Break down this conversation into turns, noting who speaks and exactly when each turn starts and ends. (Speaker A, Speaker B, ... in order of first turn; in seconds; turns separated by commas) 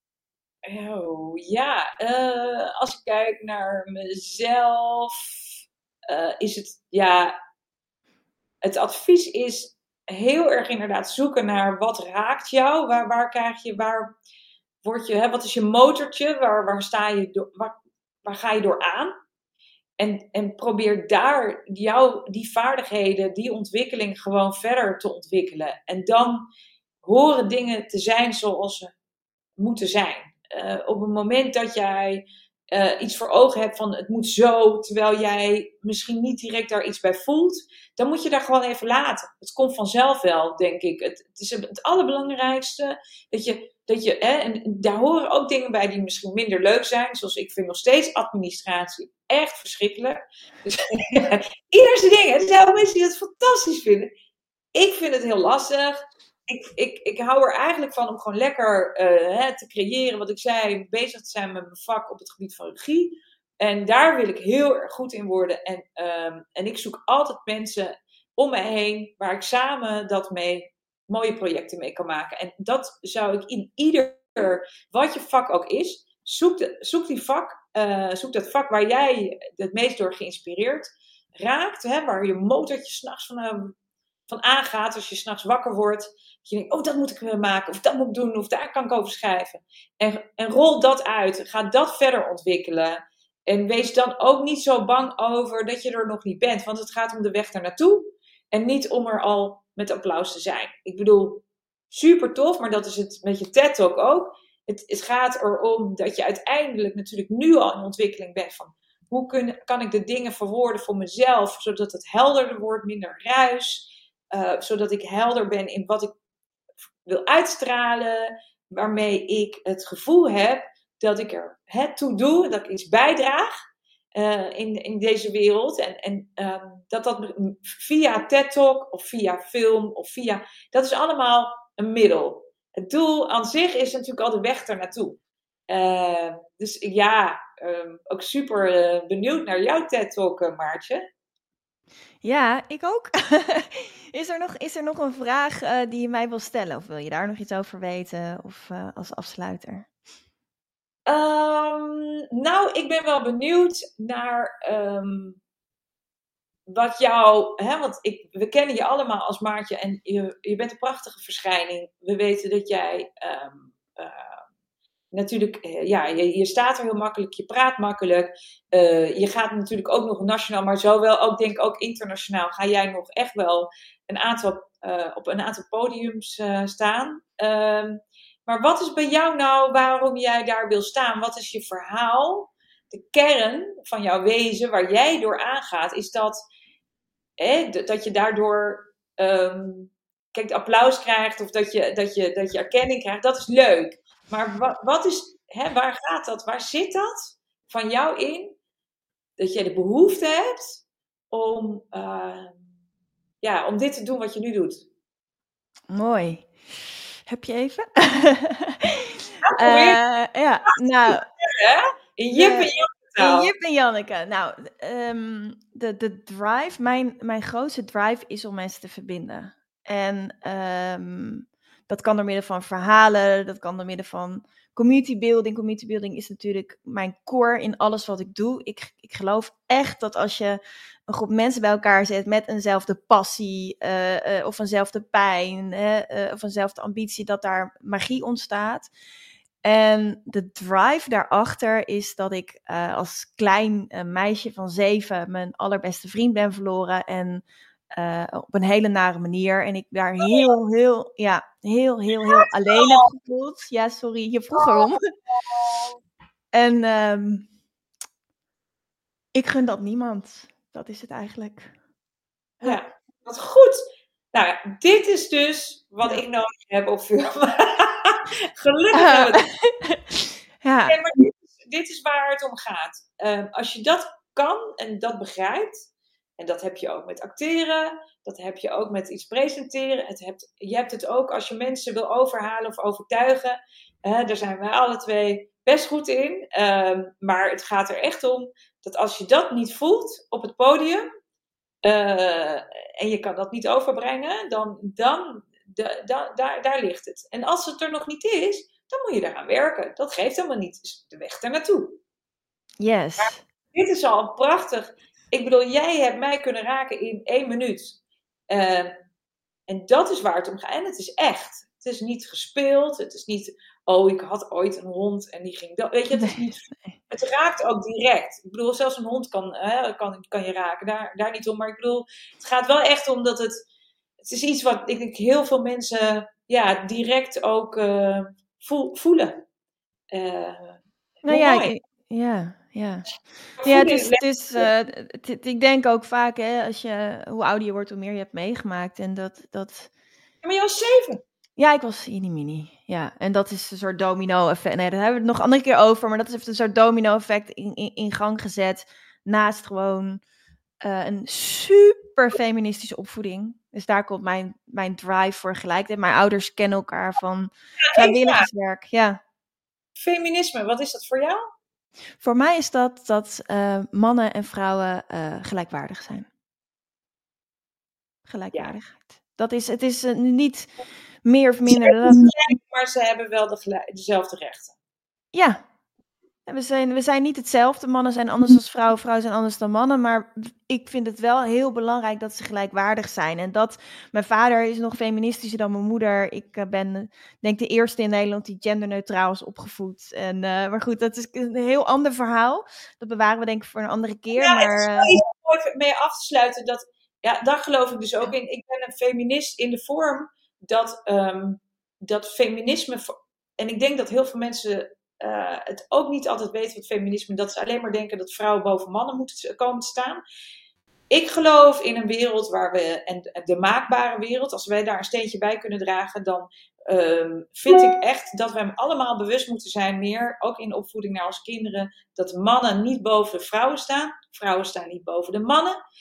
Speaker A: 0.7-5.4, Speaker A: 6.1-7.3, Speaker A: 8.6-14.1, Speaker A: 14.8-19.1, Speaker A: 20.0-26.4, Speaker A: 27.0-28.9, Speaker A: 29.6-54.1, Speaker A: 54.7-83.8, Speaker A: 84.3-116.1, Speaker A: 117.1-123.5, Speaker A: 124.2-141.0, Speaker B: 142.2-149.9, Speaker A: 151.1-155.4, Speaker A: 156.7-164.4, Speaker A: 165.1-186.3, Speaker A: 187.4-198.6, Speaker A: 199.4-202.6, Speaker A: 203.4-204.8, Speaker B: 205.9-206.5, Speaker B: 207.3-211.3, Speaker A: 209.5-210.0, Speaker A: 211.1-213.5, Speaker B: 212.3-238.9, Speaker B: 239.6-247.4, Speaker B: 247.9-255.0, Speaker A: 250.2-250.5, Speaker A: 252.2-253.1, Speaker A: 254.5-256.0, Speaker B: 256.5-257.5, Speaker B: 259.3-261.7, Speaker A: 262.6-263.8, Speaker A: 264.3-269.4, Speaker B: 268.9-271.0, Speaker A: 270.9-275.8, Speaker A: 276.4-291.1, Speaker A: 291.8-302.0, Speaker B: 302.8-303.4, Speaker A: 303.2-308.0, Speaker A: 308.5-308.9, Speaker A: 309.7-316.6, Speaker B: 316.1-317.0, Speaker A: 317.1-323.5, Speaker A: 324.2-329.4, Speaker A: 330.1-331.7, Speaker B: 331.2-333.1, Speaker A: 333.6-334.7, Speaker B: 333.6-339.9, Speaker A: 340.4-341.2, Speaker B: 341.6-350.2, Speaker B: 350.8-359.2, Speaker A: 357.9-358.5, Speaker A: 360.0-361.4, Speaker B: 362.2-366.3, Speaker B: 368.3-370.7, Speaker B: 371.2-372.3, Speaker A: 371.8-374.8, Speaker B: 375.3-375.6, Speaker B: 376.5-395.1, Speaker A: 394.4-410.2, Speaker A: 411.1-425.8